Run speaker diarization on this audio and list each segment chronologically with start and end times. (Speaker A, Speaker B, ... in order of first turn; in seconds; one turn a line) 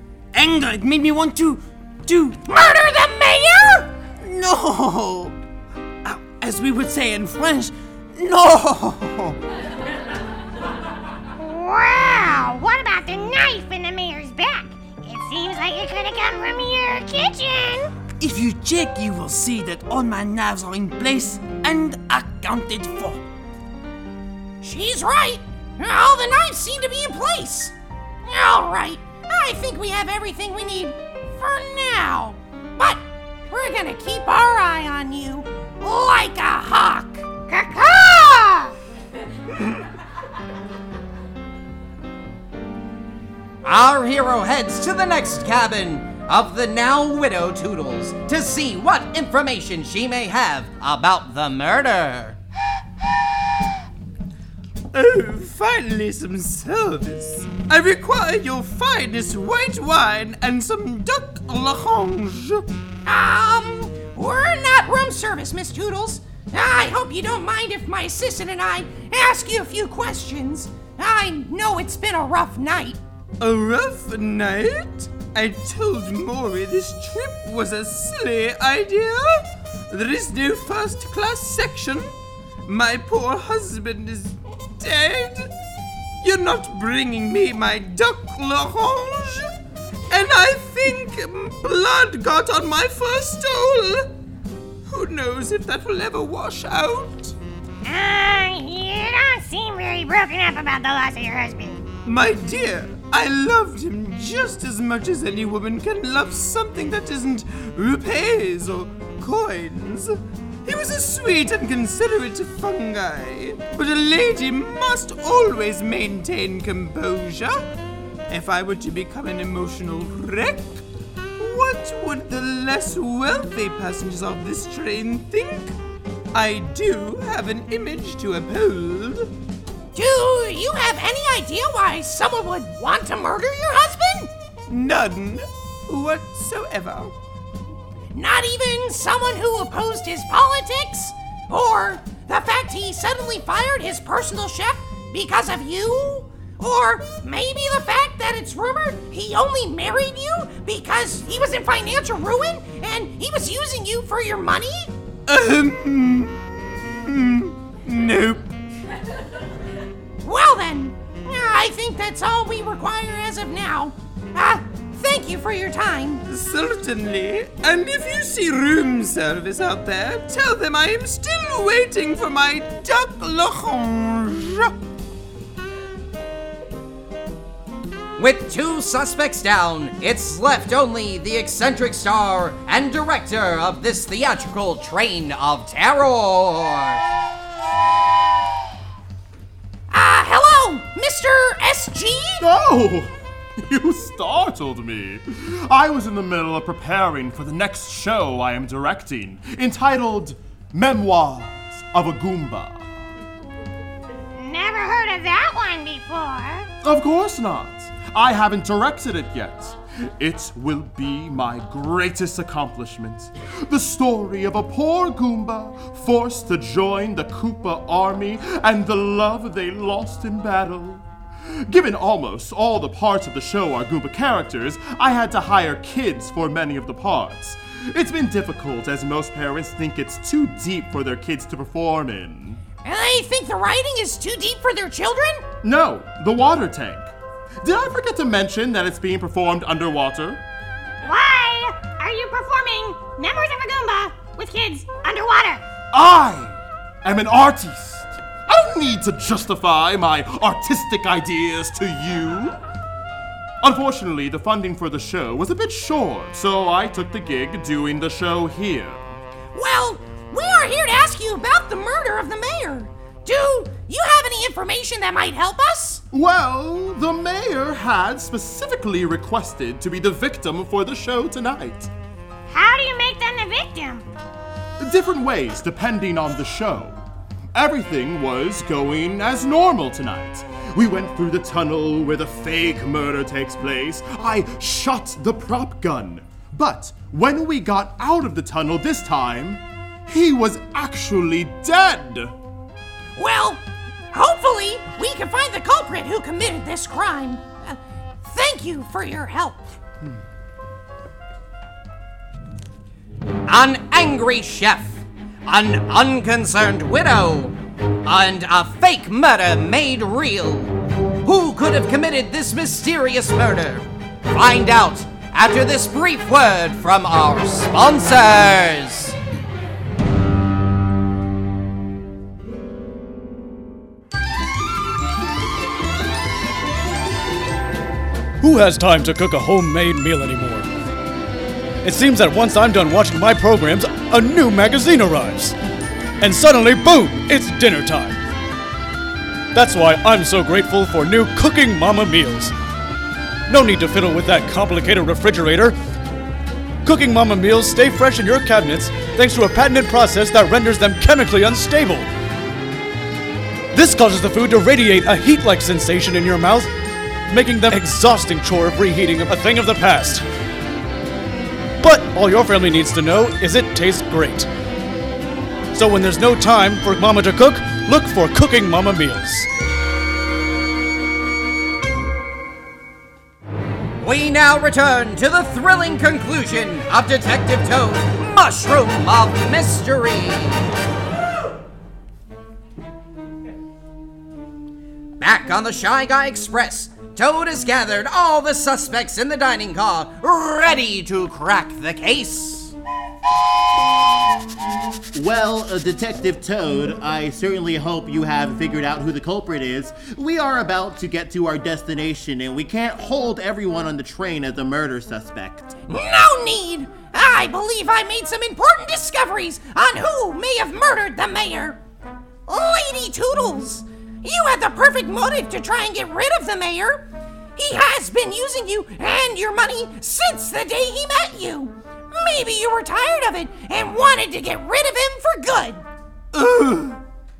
Speaker A: 0.3-2.4
Speaker B: 2.5-3.9
Speaker A: 4.2-5.4
Speaker A: 6.0-9.4
Speaker C: 11.4-17.9
Speaker A: 18.2-23.2
Speaker B: 24.6-27.7
Speaker B: 28.2-37.3
Speaker C: 37.5-38.8
Speaker D: 43.6-52.3
Speaker E: 54.9-62.6
Speaker B: 63.1-73.0
Speaker E: 73.4-82.1
Speaker E: 82.7-85.5
Speaker E: 86.2-89.5
Speaker E: 90.1-94.1
Speaker E: 94.9-97.4
Speaker C: 97.8-101.9
Speaker E: 102.0-117.6
Speaker E: 118.3-120.8
Speaker E: 121.4-125.7
Speaker E: 126.3-129.3
Speaker B: 129.9-134.3
Speaker E: 134.7-137.2
Speaker B: 138.1-154.9
Speaker E: 155.3-158.5
Speaker B: 160.2-166.2
Speaker E: 166.3-174.7
Speaker D: 178.2-186.9
Speaker B: 189.9-192.4
Speaker F: 192.4-202.9
Speaker C: 204.3-206.7
Speaker F: 206.8-232.6
Speaker B: 232.8-235.5
Speaker F: 235.6-240.4
Speaker C: 241.0-245.6
Speaker F: 245.9-252.6
Speaker F: 253.6-259.1
Speaker B: 259.5-266.0
Speaker F: 266.1-271.9
Speaker C: 272.5-274.1
Speaker F: 274.8-277.0
Speaker F: 277.5-292.3
Speaker B: 293.2-293.6
Speaker B: 294.1-299.8
Speaker D: 303.5-307.5
Speaker D: 308.1-310.7
Speaker D: 311.3-313.8
Speaker D: 314.4-319.1
Speaker G: 328.4-330.7
Speaker G: 331.8-335.6
Speaker G: 336.2-338.2
Speaker G: 339.5-342.5
Speaker G: 343.5-345.8
Speaker G: 346.8-352.1
Speaker G: 353.7-356.7
Speaker G: 357.3-360.2
Speaker G: 361.8-364.5
Speaker G: 365.7-369.5
Speaker D: 374.0-380.4
Speaker D: 385.2-392.7
Speaker H: 395.1-405.7
Speaker B: 405.9-411.8
Speaker B: 412.5-425.9
Speaker E: 426.3-427.0